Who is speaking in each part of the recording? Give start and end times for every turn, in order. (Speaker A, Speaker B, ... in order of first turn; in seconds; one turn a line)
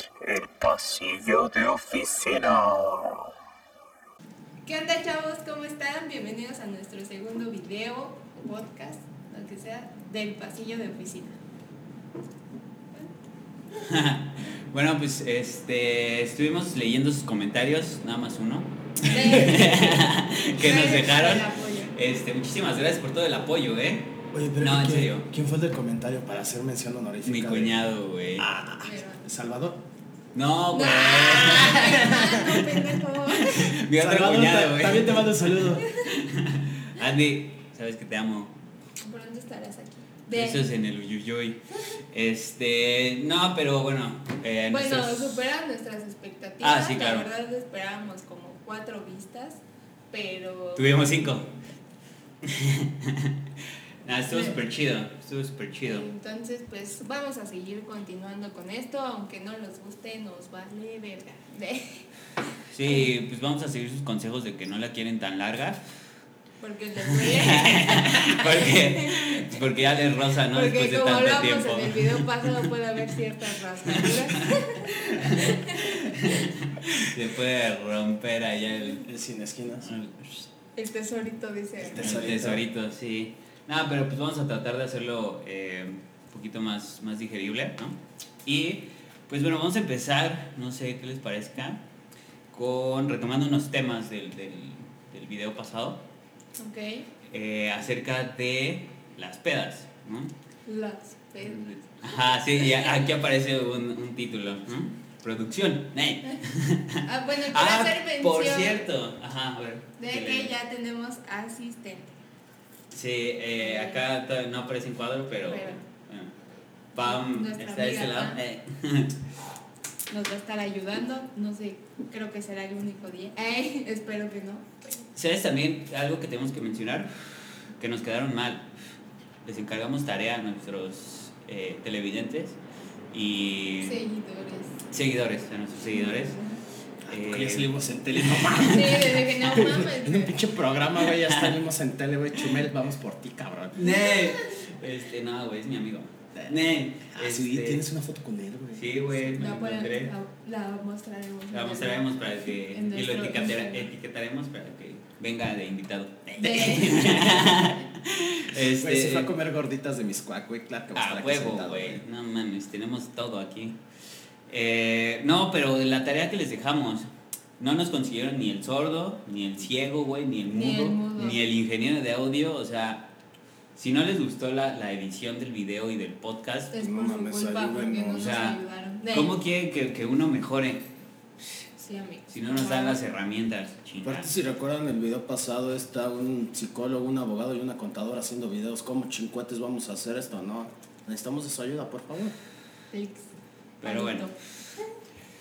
Speaker A: 0.2-3.2
Speaker B: 4.7-11.4
Speaker C: 13.8-25.3
Speaker B: 19.0-21.9
Speaker D: 24.3-27.7
Speaker C: 27.2-28.5
Speaker D: 28.4-29.8
Speaker B: 28.8-29.2
Speaker C: 30.4-32.9
Speaker B: 30.7-33.8
Speaker C: 33.5-38.5
Speaker D: 33.9-35.8
Speaker B: 39.0-40.7
Speaker C: 40.3-45.4
Speaker B: 44.7-51.0
Speaker C: 46.6-47.3
Speaker C: 50.8-51.5
Speaker C: 52.4-53.3
Speaker C: 54.0-56.1
Speaker B: 54.3-54.6
Speaker B: 55.9-62.1
Speaker C: 62.7-65.8
Speaker B: 62.8-63.1
Speaker B: 66.6-69.6
Speaker C: 67.1-72.7
Speaker B: 70.5-76.5
Speaker C: 73.9-79.1
Speaker D: 79.0-79.9
Speaker C: 79.8-80.5
Speaker B: 80.8-82.1
Speaker D: 81.8-82.6
Speaker C: 81.9-91.8
Speaker C: 92.5-96.0
Speaker B: 96.6-97.1
Speaker C: 97.3-100.3
Speaker B: 100.7-102.9
Speaker C: 101.4-110.5
Speaker B: 107.0-108.9
Speaker B: 110.0-112.2
Speaker C: 112.9-116.3
Speaker B: 113.6-114.0
Speaker B: 115.5-115.8
Speaker C: 116.9-119.1
Speaker B: 117.0-118.4
Speaker B: 120.1-125.1
Speaker C: 125.2-127.1
Speaker C: 127.8-128.7
Speaker C: 129.4-132.6
Speaker C: 133.1-134.0
Speaker B: 133.8-134.8
Speaker C: 134.9-136.4
Speaker B: 135.9-136.6
Speaker D: 137.1-143.8
Speaker C: 137.1-138.9
Speaker B: 138.7-140.3
Speaker C: 141.1-141.6
Speaker C: 143.8-147.8
Speaker B: 143.8-144.6
Speaker D: 147.1-149.1
Speaker C: 148.8-150.1
Speaker B: 149.4-153.9
Speaker C: 151.5-159.3
Speaker B: 156.4-157.8
Speaker D: 158.8-162.0
Speaker C: 160.9-163.8
Speaker C: 164.5-167.1
Speaker C: 167.6-173.1
Speaker B: 170.5-171.4
Speaker C: 173.8-176.7
Speaker B: 176.7-179.3
Speaker D: 176.8-178.3
Speaker C: 178.2-180.8
Speaker B: 181.8-183.0
Speaker C: 182.3-184.3
Speaker D: 184.0-192.3
Speaker B: 192.9-193.3
Speaker C: 193.8-194.3
Speaker B: 193.8-194.8